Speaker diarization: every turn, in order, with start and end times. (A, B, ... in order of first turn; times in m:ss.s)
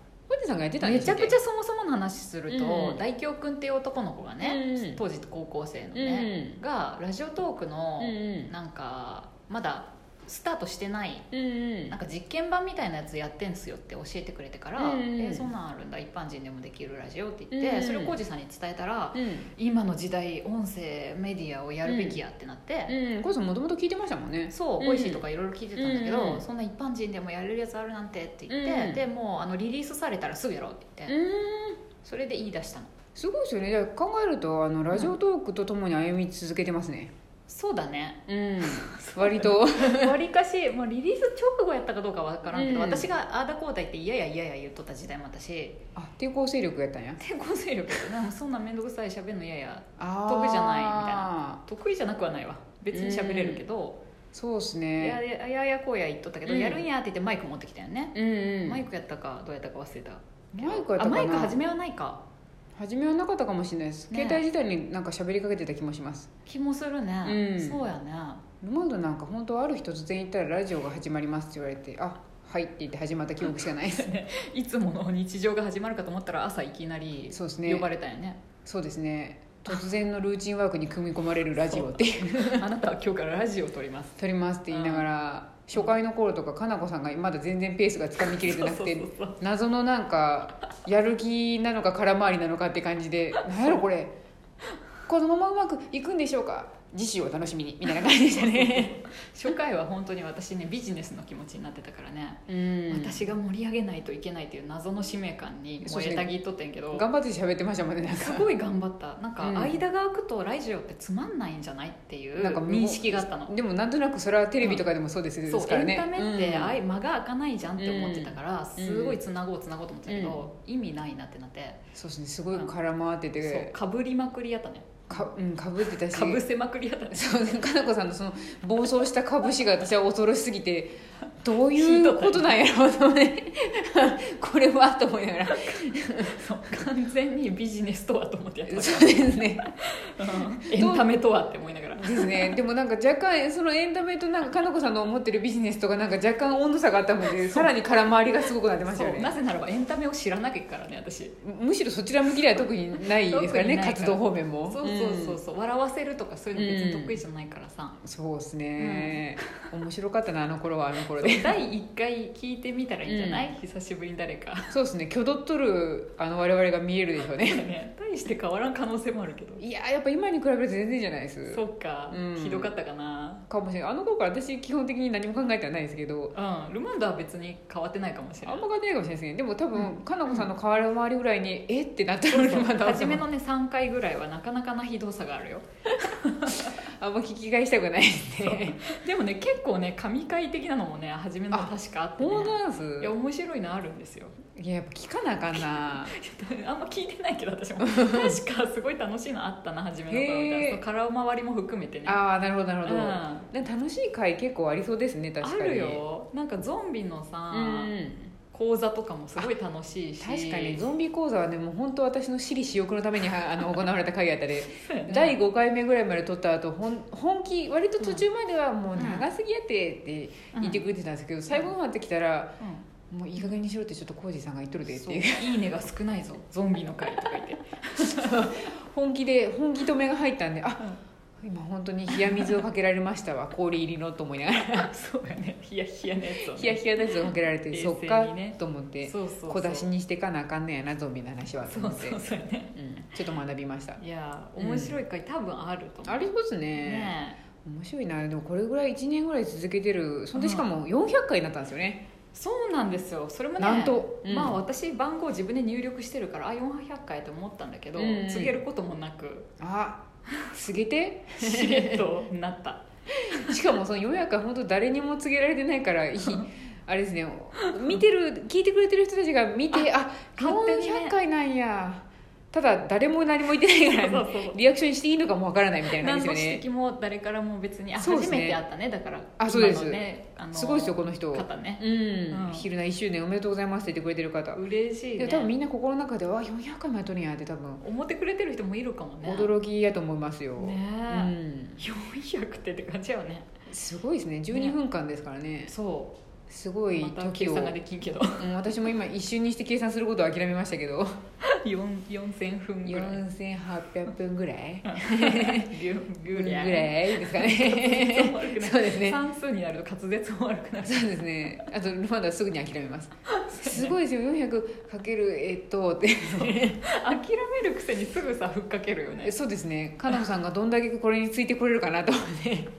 0:00.3-0:01.4 A
0:00.8-0:11.3 B
0:02.5-0:03.0 A
0:04.4-0:05.0 A
0:05.9-0:06.6 A
0:08.0-0:08.5 A
0:11.3-0:12.0 A
0:11.9-0:23.0 B
0:14.8-0:15.5 A
0:17.5-0:18.2 A
0:19.1-0:19.5 A
0:21.8-0:22.2 A
0:22.9-0:25.2 A
0:24.5-0:31.2 B
0:25.8-0:26.4 A
0:28.5-0:29.0 A
0:31.1-0:31.8 A
0:32.0-0:32.9 B
0:33.1-0:37.1 A
0:37.5-0:45.8 B
0:38.3-0:40.2 A
0:42.5-0:43.1 A
0:45.9-0:47.2 A
0:47.2-0:54.0 B
0:50.0-0:51.6 A
0:52.9-0:53.6 A
0:54.3-0:55.2 A
0:55.0-1:02.2 B
0:56.4-0:56.8 A
0:58.1-0:58.8 A
1:00.6-1:01.6 A
1:02.8-1:06.3 A
1:04.1-1:04.4 B
1:06.4-1:08.4 B
1:07.2-1:07.8 A
1:08.6-1:14.1 A
1:13.4-1:18.4 B
1:17.3-1:17.9 A
1:18.6-1:22.7 A
1:21.7-1:24.2 B
1:24.2-1:34.1 A
1:24.7-1:25.1 B
1:28.2-1:29.4 B
1:33.4-1:33.8 B
1:35.1-1:39.0 A
1:38.0-1:47.1 B
1:42.5-1:43.2 A
1:45.8-1:46.3 A
1:46.9-1:48.5 A
1:48.1-1:53.5 B
1:49.4-1:49.8 A
1:52.4-1:56.8 A
1:54.6-1:54.9 B
1:55.4-2:01.8 B
1:57.8-1:59.2 A
2:00.1-2:00.4 A
2:01.9-2:03.7 A
2:03.4-2:05.3 B
2:05.1-2:06.4 A
2:06.1-2:07.4 B
2:07.1-2:16.4 A
2:11.6-2:12.5 B
2:15.5-2:22.5 B
2:18.7-2:19.6 A
2:20.6-2:21.1 A
2:22.0-2:29.3 A
2:27.3-2:27.7 B
2:28.8-2:31.3 B
2:31.4-2:35.4 A
2:32.9-2:38.0 B
2:36.5-2:37.2 A
2:38.0-2:41.6 A
2:38.8-2:39.4 B
2:41.1-2:44.7 B
2:43.0-2:43.5 A
2:44.7-2:47.7 A
2:47.3-2:49.6 B
2:49.6-2:52.7 A
2:51.5-2:53.4 B
2:53.5-2:56.3 A
2:56.3-2:58.6 B
2:58.4-3:03.2 A
2:59.7-3:00.5 B
3:02.3-3:06.7 B
3:06.5-3:08.8 A
3:08.4-3:14.4 B
3:11.5-3:13.1 A
3:14.5-3:16.1 A
3:15.5-3:22.2 B
3:17.8-3:18.4 A
3:20.1-3:20.8 A
3:22.0-3:26.0 A
3:22.8-3:23.5 B
3:25.4-3:27.9 B
3:27.5-3:28.3 A
3:28.5-3:30.9 B
3:30.2-3:42.6 A
3:34.8-3:35.4 B
3:39.0-3:39.3 B
3:40.5-3:40.8 B
3:43.1-3:45.6 A
3:44.9-3:48.5 B
3:48.0-3:50.8 A
3:51.4-3:54.9 A
3:52.1-3:52.6 B
3:54.8-3:59.9 B
3:56.5-4:04.0 A
4:01.7-4:02.8 B
4:04.0-4:06.2 B
4:04.6-4:05.0 A
4:06.0-4:12.0 A
4:06.8-4:07.4 B
4:10.3-4:10.6 B
4:12.3-4:19.5 B
4:13.6-4:14.6 A
4:17.9-4:18.6 A
4:19.6-4:22.1 A
4:21.4-4:23.5 B
4:23.2-4:36.6 A
4:27.6-4:28.0 B
4:29.7-4:31.2 B
4:33.9-4:34.6 B
4:35.9-4:42.7 B
4:38.0-4:38.6 A
4:39.4-4:44.6 A
4:44.6-4:45.5 B
4:45.2-4:47.8 A
4:47.8-4:49.5 B
4:49.2-4:51.8 A
4:50.6-4:53.5 B
4:53.7-4:55.7 A
4:55.7-4:56.2 B
4:56.5-4:57.8 A
4:56.9-4:58.5 B
4:58.4-5:01.1 A
5:01.4-5:03.2 B
5:02.8-5:05.7 A
5:04.8-5:11.1 B
5:06.3-5:09.2 A
5:10.8-5:16.8 A
5:13.3-5:14.0 B
5:16.4-5:19.4 B
5:19.2-5:22.7 A